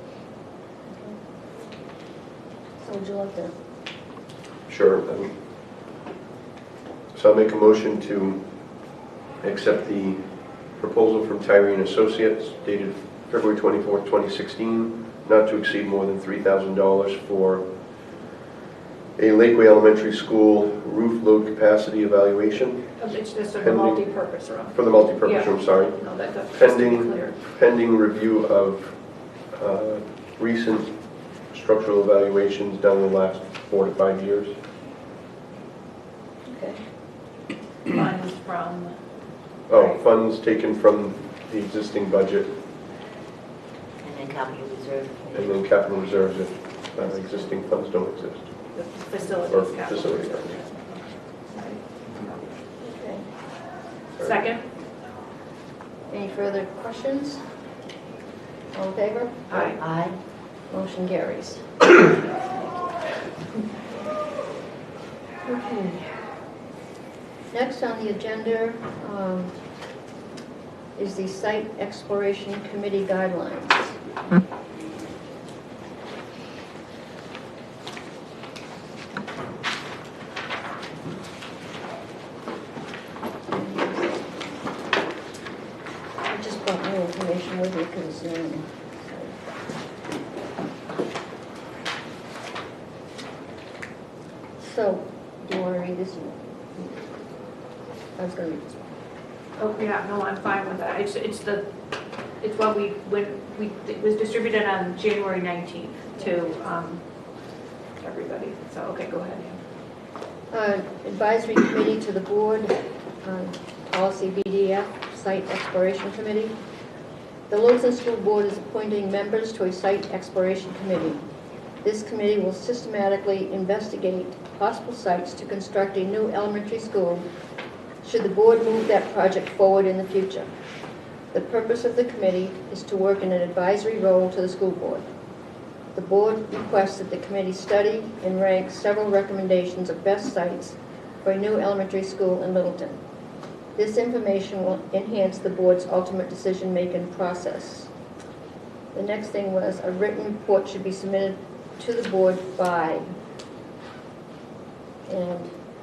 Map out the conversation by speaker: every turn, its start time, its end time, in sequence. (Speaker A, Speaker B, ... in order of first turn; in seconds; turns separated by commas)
Speaker A: 0.9-1.2, Speaker A: 2.8-3.5, Speaker B: 4.7-5.3, Speaker B: 7.1-8.4, Speaker B: 9.4-10.2, Speaker B: 10.8-17.7, Speaker B: 19.2-22.8, Speaker C: 23.0-27.4, Speaker B: 23.6-24.1, Speaker B: 24.7-29.0, Speaker B: 29.5-30.9, Speaker B: 31.5-34.5, Speaker A: 36.5-36.8, Speaker C: 37.9-39.0, Speaker B: 39.7-42.5, Speaker C: 39.7-40.0, Speaker D: 44.0-45.6, Speaker B: 45.4-48.5, Speaker D: 47.0-47.5, Speaker C: 48.7-52.5, Speaker B: 49.4-50.6, Speaker A: 52.8-53.2, Speaker C: 54.2-54.6, Speaker A: 56.1-57.4, Speaker A: 58.7-59.6, Speaker C: 59.5-59.8, Speaker D: 59.8-60.2, Speaker A: 60.7-63.0, Speaker A: 65.5-66.0, Speaker A: 67.5-69.5, Speaker A: 71.0-74.0, Speaker A: 83.5-84.5, Speaker A: 86.2-89.4, Speaker A: 94.6-97.0, Speaker A: 98.2-98.8, Speaker C: 99.6-101.7, Speaker C: 102.4-107.0, Speaker C: 108.0-109.6, Speaker A: 110.5-116.5, Speaker A: 117.5-121.2, Speaker A: 121.8-127.2, Speaker A: 128.0-130.5, Speaker A: 131.3-135.1, Speaker A: 135.9-143.0, Speaker A: 143.8-147.9, Speaker A: 148.9-153.1, Speaker A: 155.1-155.5